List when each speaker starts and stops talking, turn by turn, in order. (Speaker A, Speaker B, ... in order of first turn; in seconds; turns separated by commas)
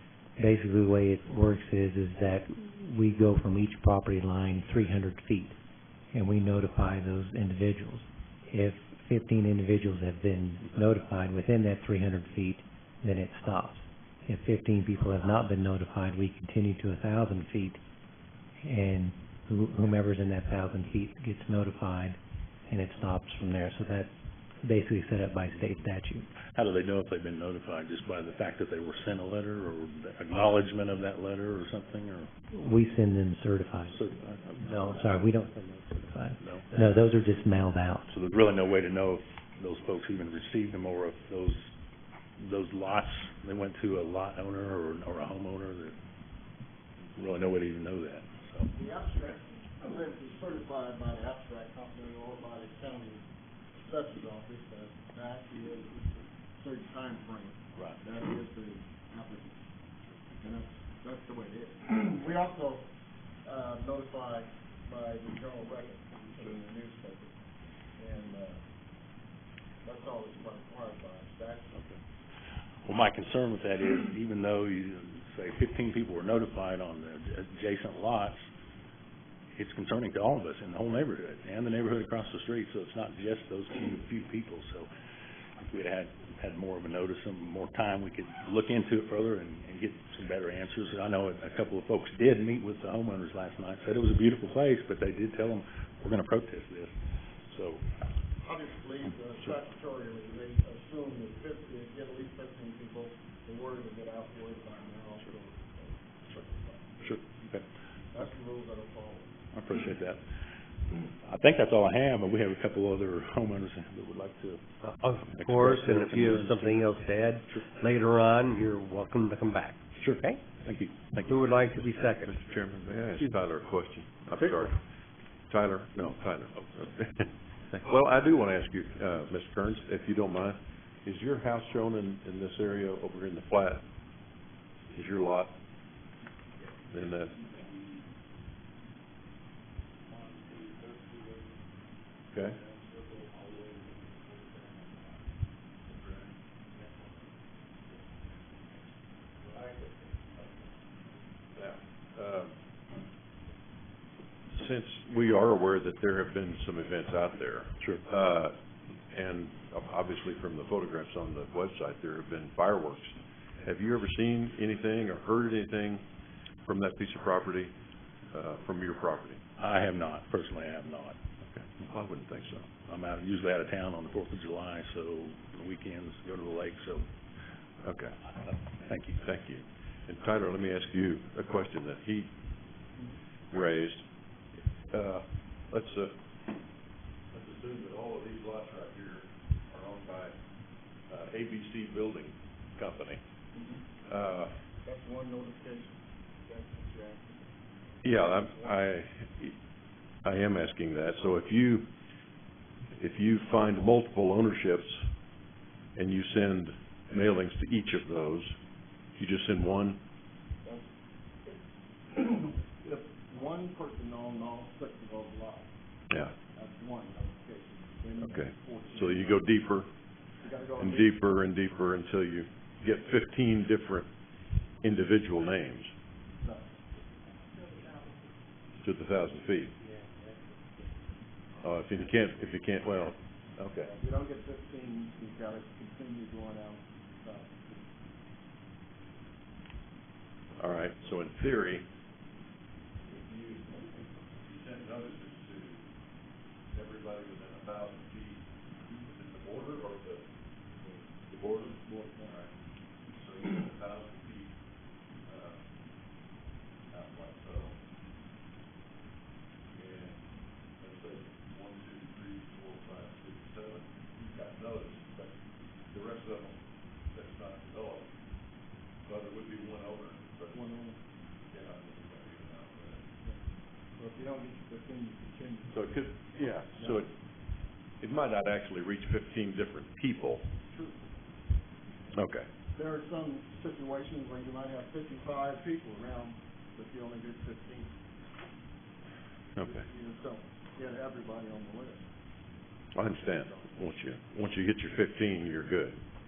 Speaker A: 0.4-5.5, Speaker A: 6.1-17.8, Speaker A: 18.6-22.2, Speaker A: 22.7-24.1, Speaker A: 24.6-26.3, Speaker B: 26.5-32.3, Speaker A: 32.5-38.1, Speaker B: 33.9-35.0, Speaker B: 36.4-36.7, Speaker B: 38.1-41.6, Speaker B: 42.4-46.0, Speaker B: 47.1-48.7, Speaker C: 48.7-59.6, Speaker B: 57.7-58.0, Speaker C: 60.4-62.9, Speaker C: 63.4-67.3, Speaker C: 68.0-68.6, Speaker C: 69.8-71.8, Speaker B: 72.8-78.4, Speaker B: 79.5-84.9, Speaker B: 85.6-96.9, Speaker B: 97.5-97.8, Speaker C: 98.4-107.6, Speaker B: 107.0-107.6, Speaker C: 108.1-109.4, Speaker B: 109.5-110.2, Speaker B: 111.2-117.8, Speaker D: 114.8-120.4, Speaker B: 120.0-121.9, Speaker D: 121.2-122.3, Speaker E: 122.2-124.8, Speaker E: 125.5-133.8, Speaker E: 134.9-135.6, Speaker E: 136.9-137.4, Speaker E: 142.3-142.6, Speaker E: 151.5-152.5, Speaker E: 154.5-158.6, Speaker E: 159.1-166.0, Speaker E: 166.7-167.7, Speaker E: 168.3-169.4, Speaker B: 169.6-171.2, Speaker E: 171.4-172.7, Speaker B: 172.8-177.1, Speaker E: 177.8-178.2, Speaker B: 178.4-179.2, Speaker E: 179.2-182.3, Speaker E: 183.5-184.0, Speaker E: 184.9-186.2, Speaker E: 187.3-190.3, Speaker E: 191.1-193.2, Speaker C: 193.5-193.8, Speaker E: 194.0-194.5, Speaker C: 194.8-198.8, Speaker E: 198.0-199.6, Speaker E: 200.2-201.9, Speaker E: 202.9-205.0, Speaker E: 205.9-208.5, Speaker E: 209.2-210.0, Speaker C: 210.6-210.9, Speaker C: 212.1-215.7, Speaker C: 216.5-219.6, Speaker E: 218.2-219.9, Speaker C: 220.4-221.2, Speaker E: 220.8-224.1, Speaker E: 224.8-225.9, Speaker C: 226.4-226.8, Speaker E: 228.8-229.7, Speaker E: 231.6-233.9, Speaker C: 233.8-237.8, Speaker E: 240.6-241.8, Speaker E: 243.0-245.8, Speaker E: 246.7-254.6, Speaker E: 255.2-255.7, Speaker E: 256.9-257.8, Speaker E: 259.7-265.4, Speaker E: 265.9-268.1, Speaker E: 269.0-270.6, Speaker C: 270.5-271.0, Speaker E: 271.5-273.0, Speaker C: 274.0-277.1, Speaker E: 275.7-277.1, Speaker E: 278.0-280.4, Speaker C: 280.7-281.0, Speaker E: 282.1-282.5, Speaker C: 282.7-287.9, Speaker E: 289.6-289.8, Speaker C: 289.6-292.1, Speaker E: 292.9-296.0